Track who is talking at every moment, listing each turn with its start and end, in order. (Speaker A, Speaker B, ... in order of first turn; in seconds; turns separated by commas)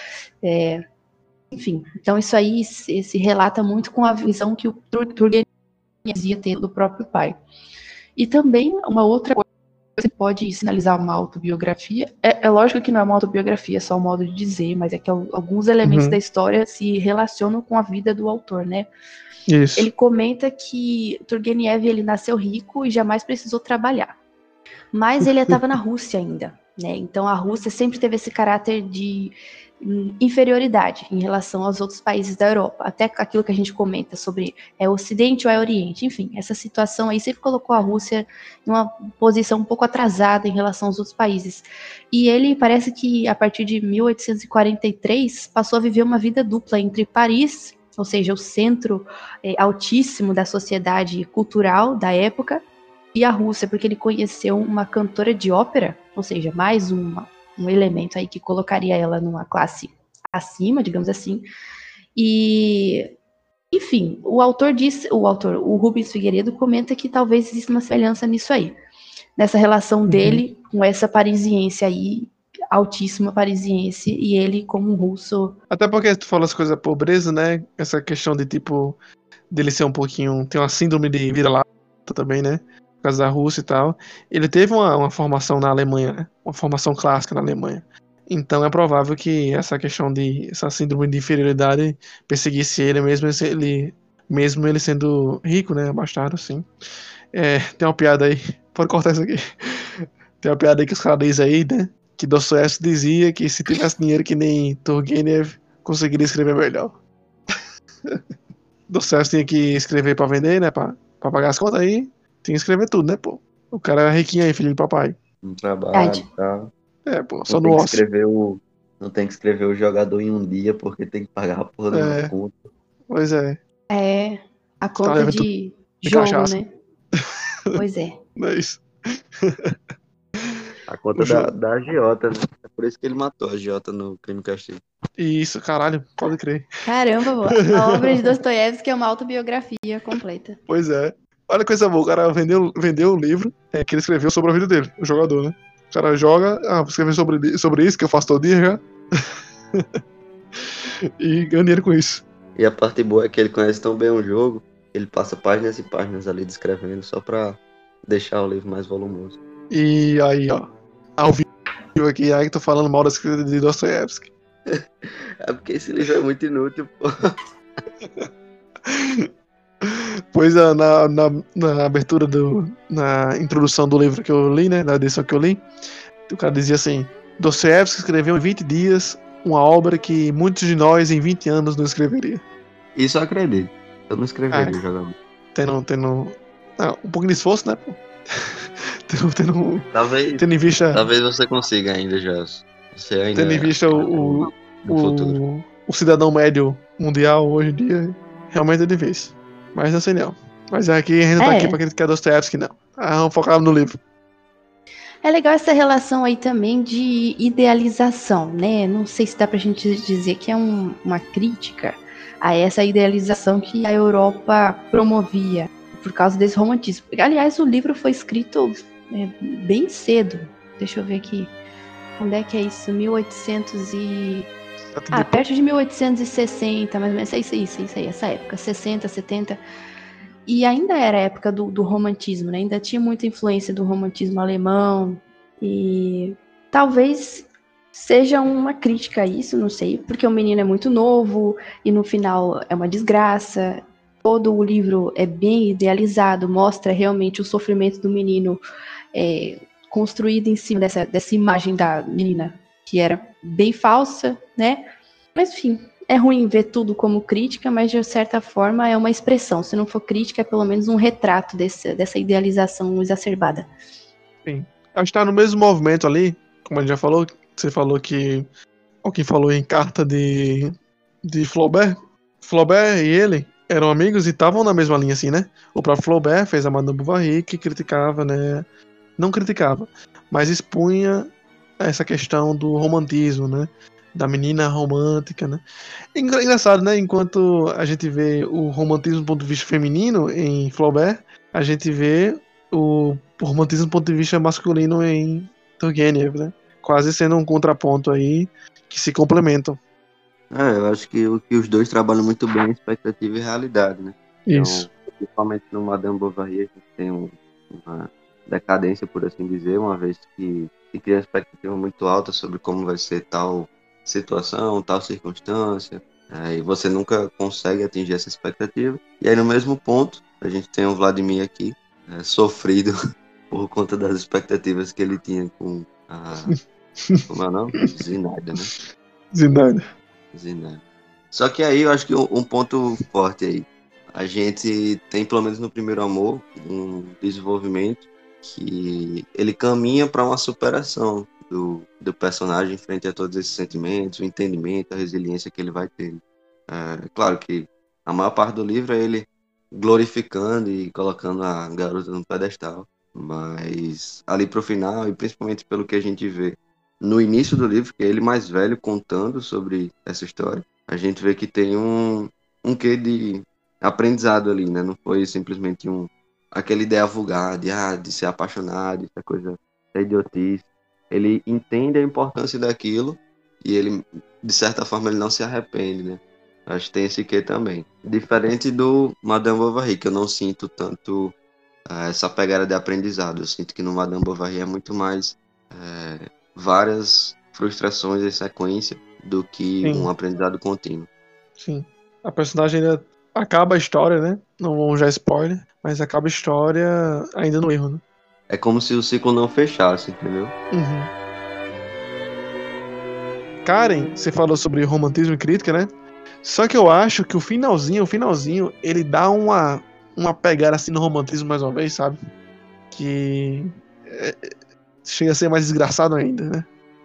Speaker A: 0.4-0.8, Speaker A: 1.5-5.5, Speaker A: 6.0-7.4, Speaker A: 8.2-9.4, Speaker A: 10.0-18.9, Speaker B: 15.8-16.2, Speaker B: 19.5-19.9, Speaker A: 19.8-24.1, Speaker A: 24.9-61.5, Speaker A: 62.1-63.1, Speaker A: 63.7-68.8, Speaker A: 69.4-75.6, Speaker B: 70.1-70.4, Speaker B: 75.7-79.0, Speaker B: 79.5-96.7, Speaker B: 97.3-107.0, Speaker B: 107.5-108.2, Speaker B: 108.9-115.2, Speaker C: 115.4-116.7, Speaker A: 115.9-116.2, Speaker B: 117.0-118.0, Speaker C: 117.5-122.5, Speaker B: 121.9-122.3, Speaker B: 123.1-123.6, Speaker A: 123.9-126.7, Speaker B: 125.0-125.5, Speaker B: 126.0-126.6, Speaker A: 127.7-128.2, Speaker B: 128.4-128.8, Speaker B: 129.4-129.8, Speaker C: 130.9-134.8, Speaker B: 131.2-131.5, Speaker B: 135.2-136.7, Speaker A: 136.8-140.6, Speaker B: 137.5-138.3, Speaker B: 140.7-149.2, Speaker B: 151.2-152.2, Speaker C: 152.6-159.4, Speaker B: 159.7-160.7, Speaker B: 161.2-164.3, Speaker C: 164.7-167.4, Speaker B: 168.0-168.3, Speaker B: 168.8-169.3, Speaker B: 169.8-175.6, Speaker B: 176.3-182.4, Speaker C: 182.9-185.1, Speaker B: 184.5-184.8, Speaker B: 185.5-188.0, Speaker B: 189.1-191.0, Speaker C: 189.9-195.4, Speaker B: 193.3-203.9, Speaker A: 201.4-201.8, Speaker A: 205.2-221.5, Speaker A: 222.2-224.5, Speaker B: 224.9-225.4, Speaker A: 225.1-229.6, Speaker A: 230.4-263.7, Speaker B: 264.4-268.5, Speaker B: 269.0-270.7, Speaker B: 271.2-278.6, Speaker B: 279.2-285.6, Speaker B: 286.1-299.8, Speaker C: 300.5-322.9, Speaker B: 304.5-304.9, Speaker C: 323.5-326.6, Speaker B: 326.5-327.2, Speaker C: 327.3-328.7, Speaker B: 329.3-329.8, Speaker C: 330.3-381.3, Speaker C: 381.9-391.1, Speaker B: 389.8-390.1, Speaker B: 391.6-398.0, Speaker C: 398.5-400.5, Speaker B: 400.7-401.1, Speaker B: 403.6-405.9, Speaker B: 406.4-412.2, Speaker B: 412.9-414.5, Speaker B: 415.0-416.7